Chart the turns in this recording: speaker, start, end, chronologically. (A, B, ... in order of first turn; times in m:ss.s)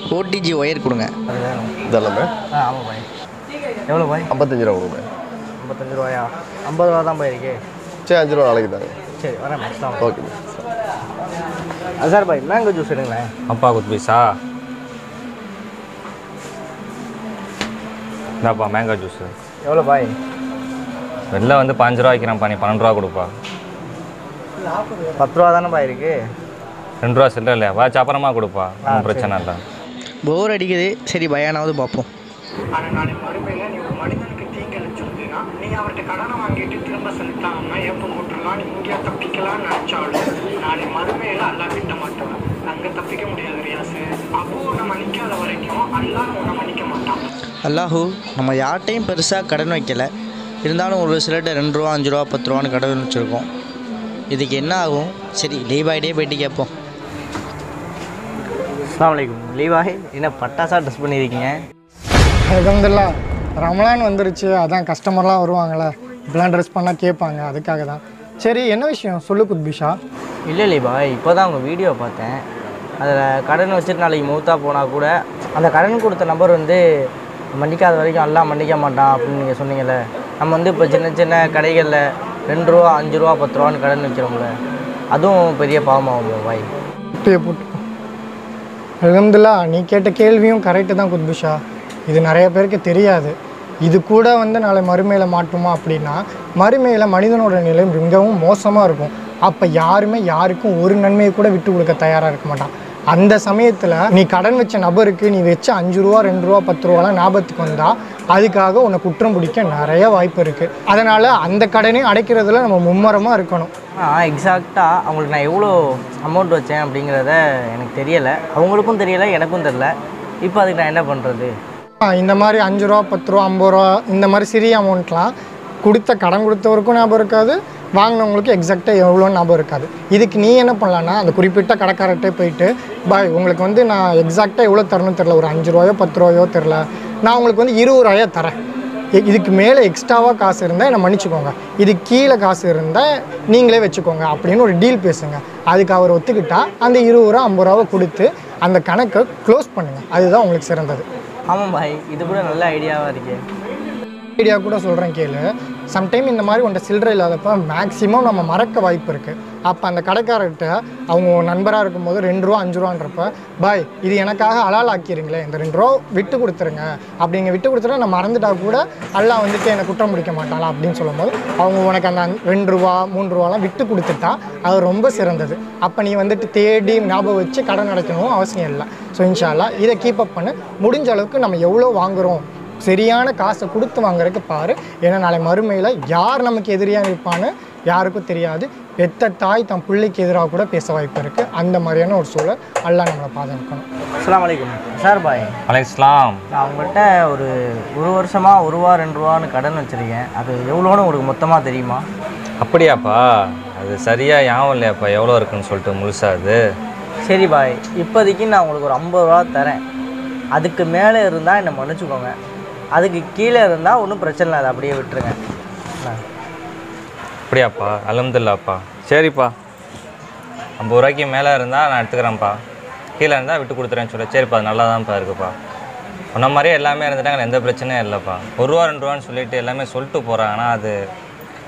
0:00.1-0:01.1 A
0:01.3-0:01.7 B
0:01.9-0:02.3 C
0:02.6-0:03.0 B
0:03.9-0:04.3 B
0:04.3-0:05.0 C
0:05.6-0:07.6 B
0:08.1-0:08.9 C
0:09.2-0:10.1 B
0:10.0-0:10.6 C
0:12.0-0:13.3 B
0:13.5-0:14.3 D
0:18.4-0:19.3 D
0:19.6-0:20.1 B
0:21.3-0:23.3 D
0:25.2-0:26.2 B
0:27.0-0:29.6 D
0:28.9-0:29.4 B
0:30.3-0:32.1 A
0:32.8-0:47.2 E
0:47.6-0:50.1 A
0:50.6-0:53.5 A
0:54.3-0:56.7 A
0:58.9-1:01.6 B
1:02.5-1:10.0 F
1:10.5-1:12.4 B
1:13.0-1:16.8 B
1:17.6-1:24.5 B
1:25.1-1:26.7 B
1:27.2-1:27.8 F
1:29.0-1:33.3 F
1:33.8-1:53.7 F
1:54.0-2:01.5 B
2:02.0-2:05.3 F
2:05.8-2:18.6 F
2:19.2-2:31.0 F
2:31.5-2:33.4 B
2:34.4-3:13.8 F
3:14.2-3:15.5 B
3:15.7-3:16.4 D
3:16.5-3:22.0 B
3:22.6-3:26.6 D
3:27.2-3:29.8 B
3:30.6-3:32.3 B
3:33.0-3:35.4 B
3:37.5-3:39.5 D
3:40.8-3:42.6 D
3:43.2-3:45.5 D
3:46.4-3:50.9 D